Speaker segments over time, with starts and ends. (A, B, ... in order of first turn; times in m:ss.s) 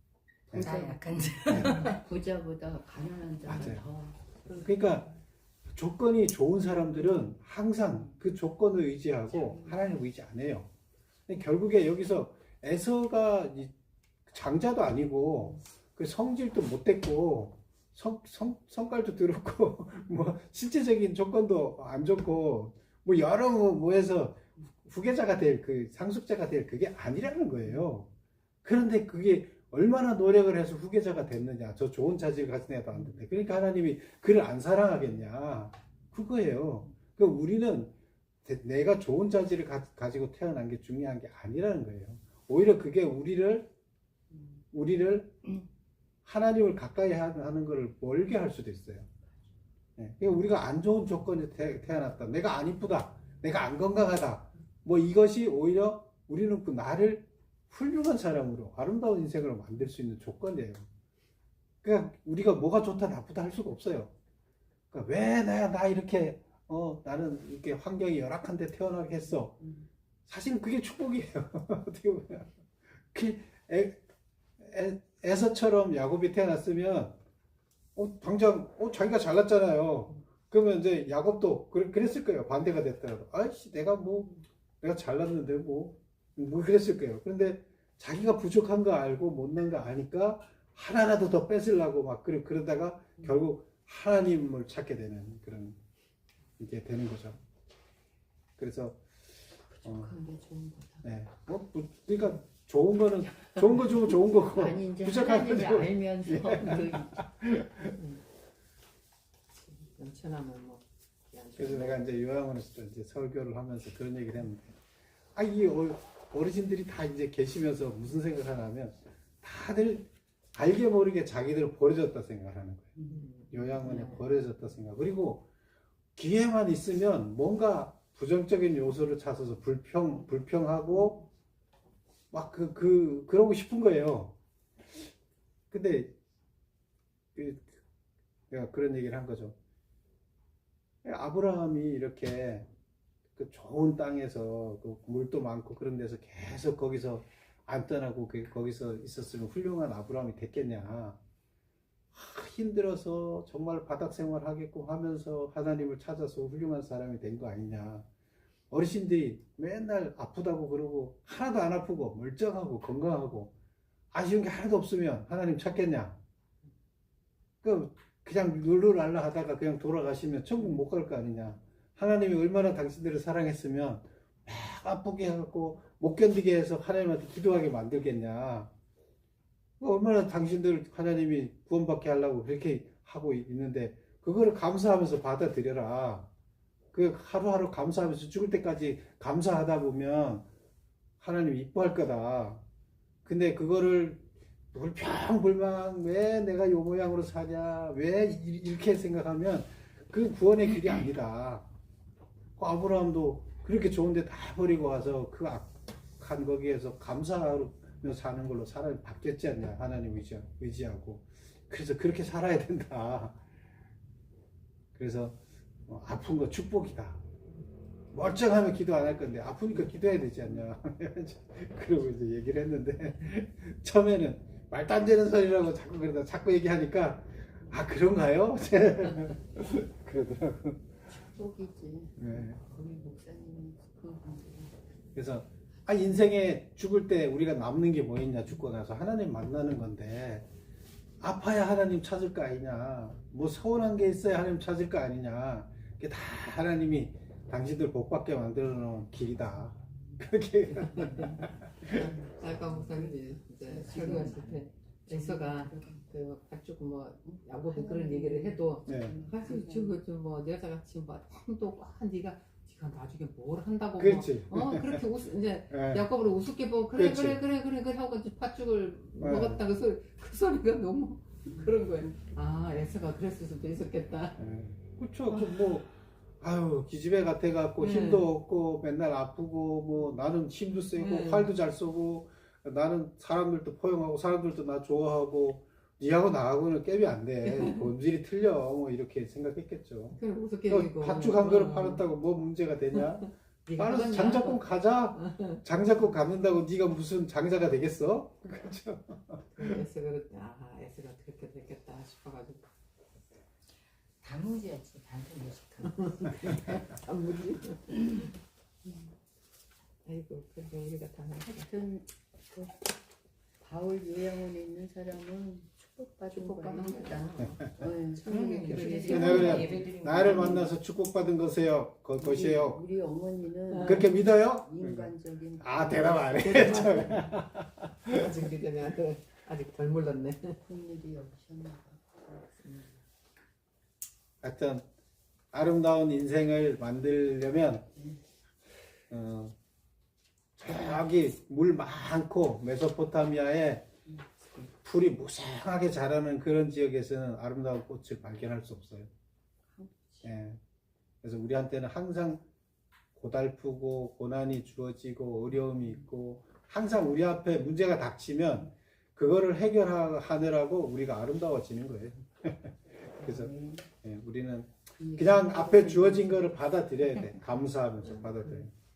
0:00.5-0:00.8 A
0:00.5-0:04.6 B
0:00.5-0:02.0 C
0:01.5-0:01.9 A
0:03.4-0:03.9 A
0:04.5-0:05.1 A
0:05.7-0:10.7 A
0:09.3-0:09.8 B
0:11.3-0:13.7 A
0:14.3-0:28.1 A
0:28.6-0:37.9 A
0:38.4-0:43.7 A
0:44.7-0:45.4 A
0:46.2-0:49.1 A
0:50.0-1:00.9 A
1:01.8-1:04.1 A
1:04.9-1:09.6 A
1:10.3-1:12.6 A
1:13.1-1:14.0 A
1:14.6-1:17.2 A
1:17.9-1:35.8 A
1:36.6-1:37.4 A
1:38.6-1:39.2 A
1:39.7-1:41.0 B
1:39.8-1:40.1 A
1:41.0-1:48.0 A
1:43.4-1:47.2 B
1:48.0-1:48.2 D
1:49.6-1:52.0 D
1:51.6-1:54.8 A
1:55.3-2:02.9 A
2:03.1-2:04.3 D
2:03.5-2:05.5 A
2:06.2-2:11.2 A
2:12.3-2:14.4 A
2:15.7-2:16.2 A
2:17.3-2:17.8 A
2:18.5-2:19.6 A
2:21.0-2:22.7 A
2:23.4-2:31.2 A
2:32.1-2:38.1 A
2:38.7-2:43.5 A
2:44.1-2:46.2 A
2:47.6-2:58.7 A
2:59.8-3:06.3 A
3:06.9-3:10.4 A
3:11.2-3:12.6 A
3:13.2-3:21.7 A
3:22.6-3:33.4 A
3:34.9-3:37.2 A
3:38.1-3:51.0 A
3:51.1-3:54.8 B
3:52.2-3:52.6 A
3:55.1-4:00.5 A
4:01.2-4:12.1 A
4:10.7-4:34.4 D
4:11.8-4:16.0 B
4:17.2-4:20.0 B
4:18.9-4:19.2 A
4:24.0-4:25.0 A
4:25.7-4:26.0 A
4:26.9-4:27.4 A
4:29.2-4:29.6 A
4:31.6-4:32.1 B
4:34.4-4:59.6 A
4:37.8-4:38.3 D
4:41.0-4:41.5 D
4:50.2-4:52.0 D
4:53.6-4:54.6 D
4:55.2-4:55.6 D
4:59.5-5:02.7 D
5:04.2-5:06.3 C
5:05.8-5:08.2 D
5:10.0-5:11.7 D
5:11.4-5:12.9 B
5:13.6-5:20.7 B
5:16.3-5:20.0 D
5:18.3-5:20.7 C
5:19.0-5:22.8 A
5:22.2-5:27.3 B
5:23.7-5:24.1 D
5:23.8-5:28.3 A
5:26.4-5:27.4 D
5:28.0-5:30.6 D
5:30.7-5:32.4 B
5:32.5-5:33.0 D
5:34.4-5:34.9 A
5:35.5-5:37.9 A
5:39.1-5:39.5 A
5:40.6-5:43.9 A
5:44.1-5:44.6 B
5:44.8-5:49.1 A
5:49.7-5:50.2 B
5:50.2-5:50.6 A
5:51.2-5:52.4 A
5:53.1-6:08.7 A
6:03.2-6:03.8 B
6:05.0-6:06.5 B